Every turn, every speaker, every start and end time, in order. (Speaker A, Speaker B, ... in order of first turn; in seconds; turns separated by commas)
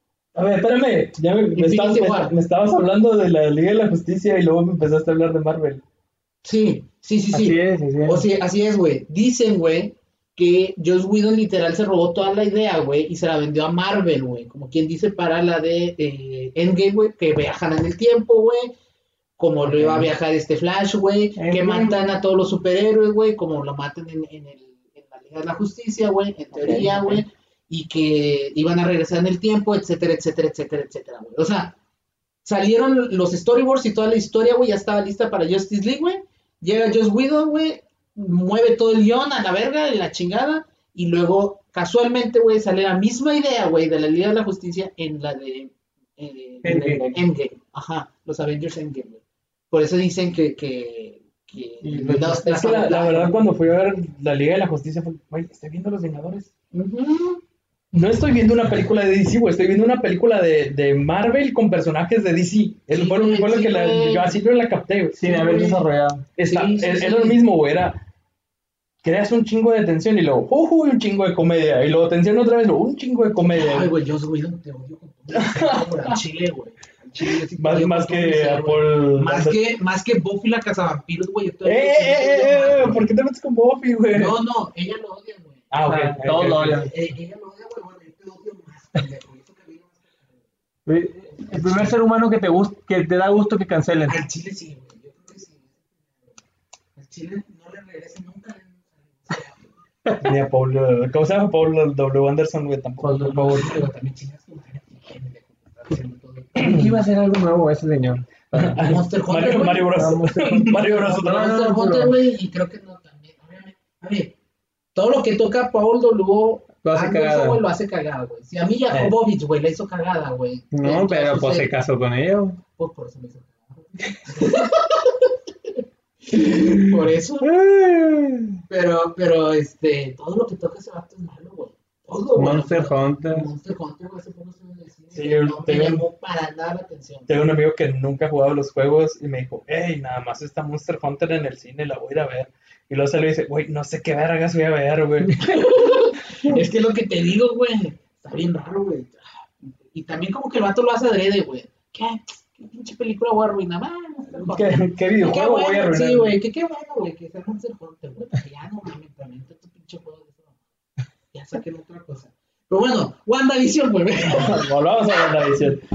Speaker A: 0.3-5.8, Speaker B: 1.5-2.3, Speaker B: 6.4-18.8, Speaker C: 7.3-8.2, Speaker B: 19.4-31.8, Speaker A: 19.7-20.1, Speaker C: 21.4-22.0, Speaker A: 26.5-27.2, Speaker B: 32.4-53.4, Speaker C: 46.6-47.2, Speaker C: 51.8-52.6, Speaker A: 52.5-56.5, Speaker B: 56.7-57.4, Speaker A: 57.9-65.2, Speaker B: 62.9-64.3, Speaker C: 65.1-66.2, Speaker B: 65.2-65.8, Speaker A: 66.4-68.0, Speaker B: 66.5-67.4, Speaker A: 69.0-73.9, Speaker B: 73.4-83.0, Speaker A: 75.3-76.2, Speaker A: 77.2-79.7, Speaker A: 81.6-84.4, Speaker B: 84.1-85.6, Speaker A: 85.7-86.9, Speaker C: 85.8-86.9, Speaker B: 86.6-90.4, Speaker C: 90.8-94.2, Speaker B: 91.4-91.9, Speaker B: 94.1-96.4, Speaker B: 97.0-99.7, Speaker A: 100.2-103.8, Speaker C: 103.0-103.7, Speaker B: 103.4-106.8, Speaker C: 106.5-108.8, Speaker A: 106.6-106.9, Speaker A: 108.5-111.7, Speaker B: 108.8-110.0, Speaker C: 109.9-112.2, Speaker B: 111.2-114.3, Speaker B: 114.9-121.7, Speaker C: 116.8-117.6, Speaker A: 118.9-119.2, Speaker C: 120.7-122.6, Speaker B: 122.8-125.7, Speaker B: 126.2-127.5, Speaker C: 127.4-128.6, Speaker B: 128.7-137.5, Speaker C: 132.3-133.5, Speaker A: 135.1-136.0, Speaker A: 137.3-145.6, Speaker B: 145.4-160.5, Speaker A: 154.3-156.3, Speaker B: 161.3-164.7, Speaker A: 164.2-165.8